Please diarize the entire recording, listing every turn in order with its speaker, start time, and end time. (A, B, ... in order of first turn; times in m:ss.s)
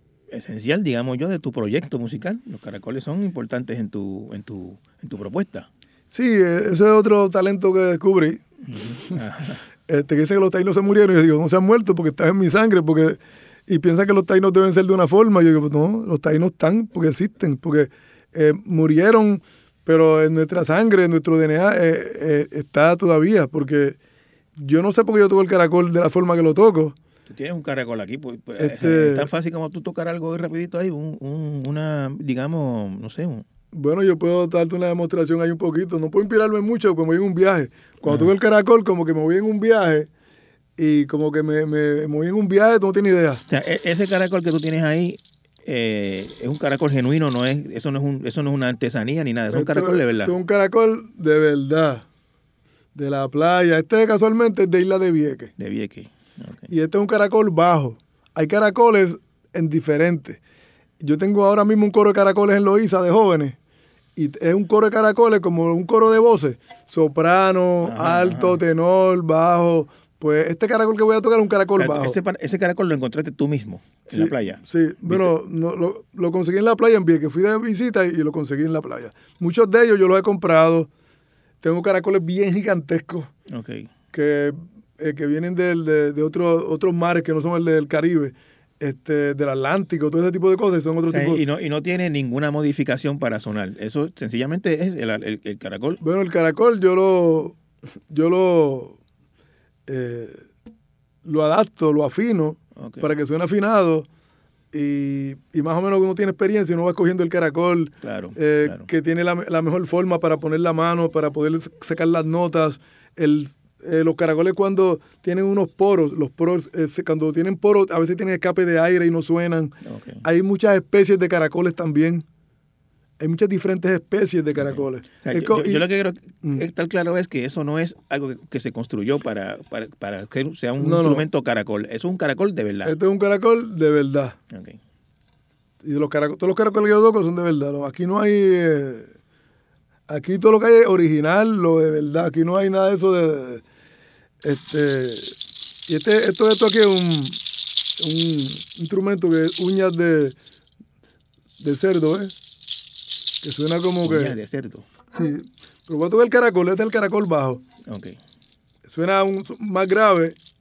0:00.3-0:05.7 A
0:06.1-0:08.4 B
0:08.7-0:09.6 A
0:09.9-0:24.0 B
0:24.6-0:27.0 B
0:27.3-0:33.5 A
0:28.6-0:29.3 B
0:33.7-0:40.1 B
0:38.1-0:38.3 A
0:40.8-0:43.4 B
0:43.5-0:50.3 A
0:49.5-0:52.0 B
0:53.0-0:55.5 B
0:55.6-0:56.7 A
0:56.7-1:00.4 B
1:01.0-1:03.6 B
1:04.2-1:12.2 B
1:07.8-1:08.6 A
1:11.8-1:15.3 A
1:14.1-1:20.9 B
1:21.6-1:23.3 B
1:23.5-1:23.9 A
1:24.1-1:31.4 B
1:31.1-1:36.0 A
1:36.0-1:37.6 B
1:38.1-1:39.0 B
1:39.9-1:40.5 B
1:41.2-1:44.1 B
1:42.8-1:43.1 A
1:44.7-2:02.2 B
1:48.0-1:48.9 A
1:59.8-2:00.2 A
2:03.2-2:05.8 B
2:04.6-2:12.9 A
2:10.8-2:11.3 B
2:12.8-2:14.4 B
2:14.5-2:14.8 A
2:15.8-2:19.1 B
2:20.1-2:23.6 B
2:24.4-2:25.4 B
2:25.9-2:27.4 B
2:28.0-2:30.4 B
2:31.6-2:32.3 B
2:33.4-2:34.4 B
2:34.0-2:34.9 A
2:35.1-2:37.6 B
2:37.9-2:38.2 A
2:38.9-2:40.4 B